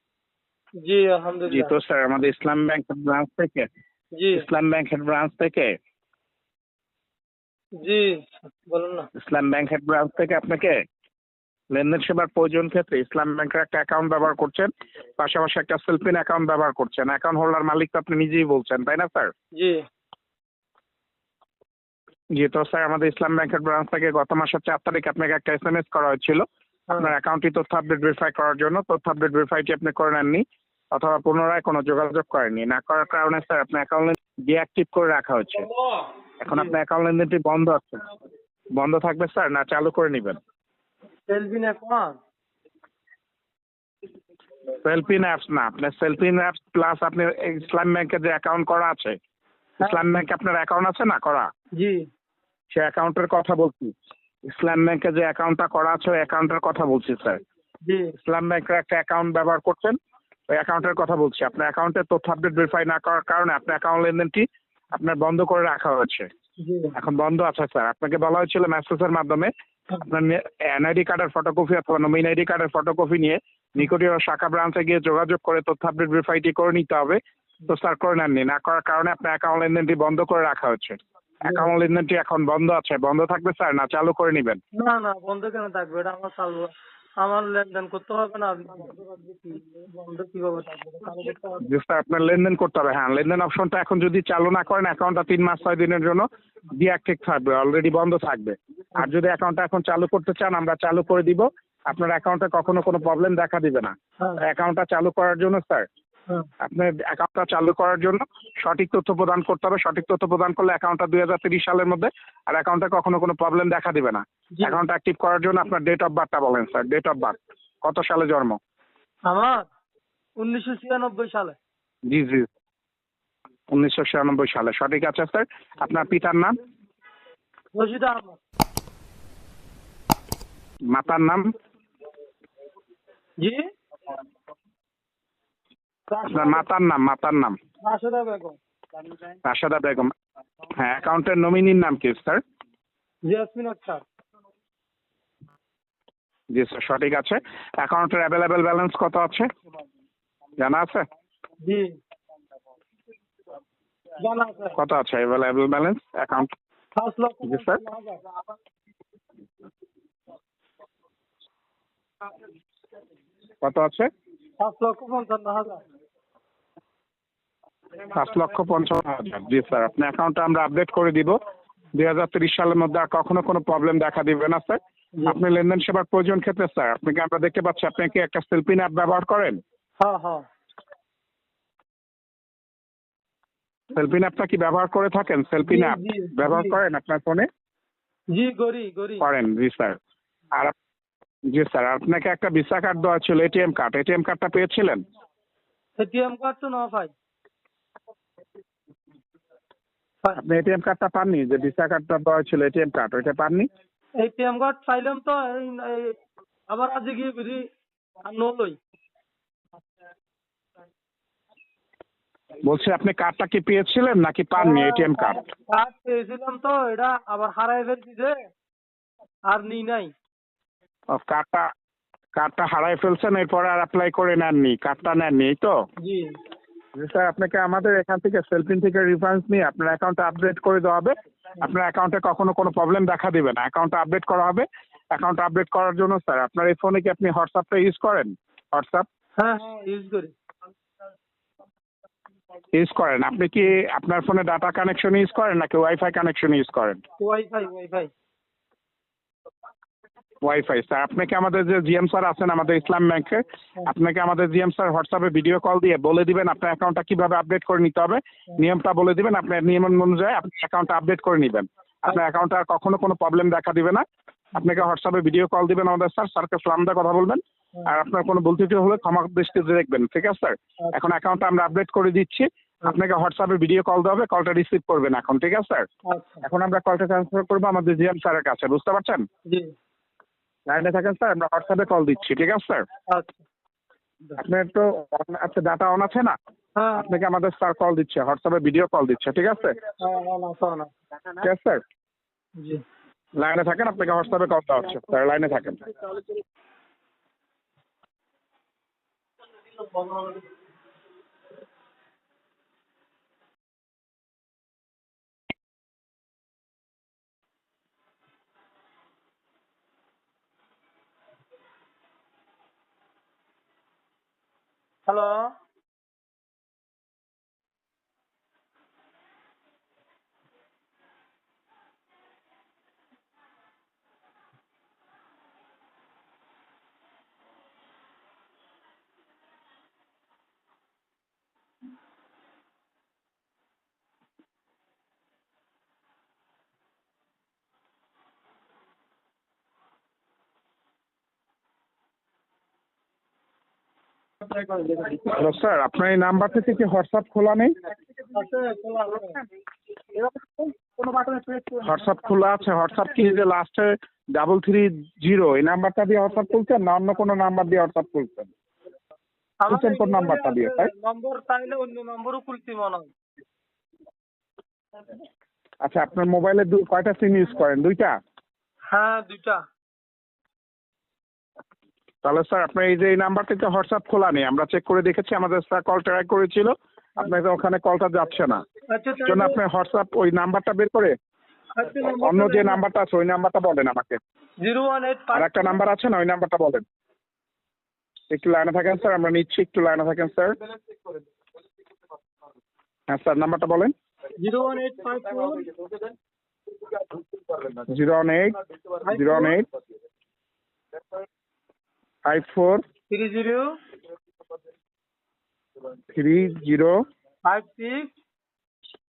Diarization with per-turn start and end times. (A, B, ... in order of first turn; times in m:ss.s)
0:00.8-0:01.7 A
0:01.5-0:03.7 B
0:04.2-0:04.4 A
0:04.3-0:05.7 B
0:07.8-0:09.1 A
0:09.2-0:10.8 B
0:11.7-0:19.3 B
0:22.3-0:26.4 B
0:27.0-0:35.7 B
0:35.6-0:36.7 A
0:36.4-0:38.0 B
0:38.7-0:40.4 B
0:41.3-0:42.2 A
0:44.8-0:49.2 B
0:49.8-0:50.1 A
0:49.8-0:51.5 B
0:51.8-0:52.0 A
0:52.7-0:53.9 B
0:54.5-0:57.4 B
0:57.8-0:58.1 A
0:58.2-1:00.0 B
1:00.5-1:06.3 B
1:06.6-1:06.9 A
1:07.0-1:09.5 B
1:10.0-1:24.6 B
1:24.8-1:31.7 A
1:31.6-1:36.2 B
1:36.8-1:45.9 B
1:46.6-1:58.6 B
1:59.2-1:59.6 A
2:00.4-2:01.6 A
2:02.1-2:02.5 B
2:03.7-2:06.6 B
2:07.7-2:08.4 A
2:10.9-2:11.5 B
2:13.4-2:13.7 A
2:16.1-2:16.6 A
2:16.3-2:17.6 B
2:17.8-2:18.6 A
2:19.4-2:20.1 B
2:20.8-2:22.4 B
2:23.2-2:24.0 A
2:26.5-2:29.5 B
2:30.6-2:31.0 B
2:31.6-2:31.9 A
2:34.2-2:34.8 A
2:34.8-2:36.5 B
2:37.0-2:38.2 A
2:37.4-2:37.8 B
2:43.6-2:44.1 B
2:44.6-2:45.8 A
2:48.1-2:51.3 B
2:52.0-2:59.6 B
3:00.0-3:00.4 A
3:03.9-3:07.5 B
3:05.6-3:06.8 A
3:08.3-3:09.2 A
3:09.2-3:10.0 B
3:11.5-3:15.0 B
3:16.0-3:17.1 A
3:20.3-3:23.7 B
3:24.2-3:26.2 A
3:26.7-3:27.6 A
3:28.2-3:28.8 A
3:32.6-3:35.4 B
3:34.6-3:38.4 A
3:39.5-3:40.1 A
3:41.1-3:41.6 B
3:42.4-3:45.7 B
3:46.0-3:46.3 A
3:47.0-3:59.0 B
3:59.4-4:00.3 A
4:02.7-4:07.0 B
4:07.2-4:08.1 A
4:10.4-4:24.0 B
4:24.5-4:35.9 B
4:36.1-4:36.4 A
4:36.4-4:39.2 B
4:40.7-4:42.8 B
4:43.1-4:43.4 A
4:44.4-4:46.3 B
4:46.8-4:47.2 A
4:47.0-4:49.7 B
4:50.0-4:50.9 A
4:51.4-4:51.8 B
4:53.4-4:56.0 B
4:59.7-5:00.4 A
5:15.0-5:15.5 A
5:44.7-5:47.7 B
5:48.3-5:49.4 A
5:50.1-5:58.5 B
5:59.6-6:03.1 A
5:59.7-6:00.9 B
6:05.8-6:08.1 B
6:08.9-6:09.6 A
6:12.2-6:18.6 B
6:18.9-6:19.6 A
6:19.2-6:21.1 B
6:21.8-6:22.8 A
6:22.1-6:24.2 B
6:24.6-6:25.8 A
6:25.3-6:26.8 B
6:28.3-6:30.6 B
6:33.1-6:33.9 B
6:34.4-6:35.8 A
6:37.7-6:38.6 B
6:39.0-6:39.6 A
6:39.1-6:39.7 B
6:42.2-6:42.8 B
6:43.1-6:43.8 A
6:46.1-6:47.0 B
6:47.4-6:48.1 A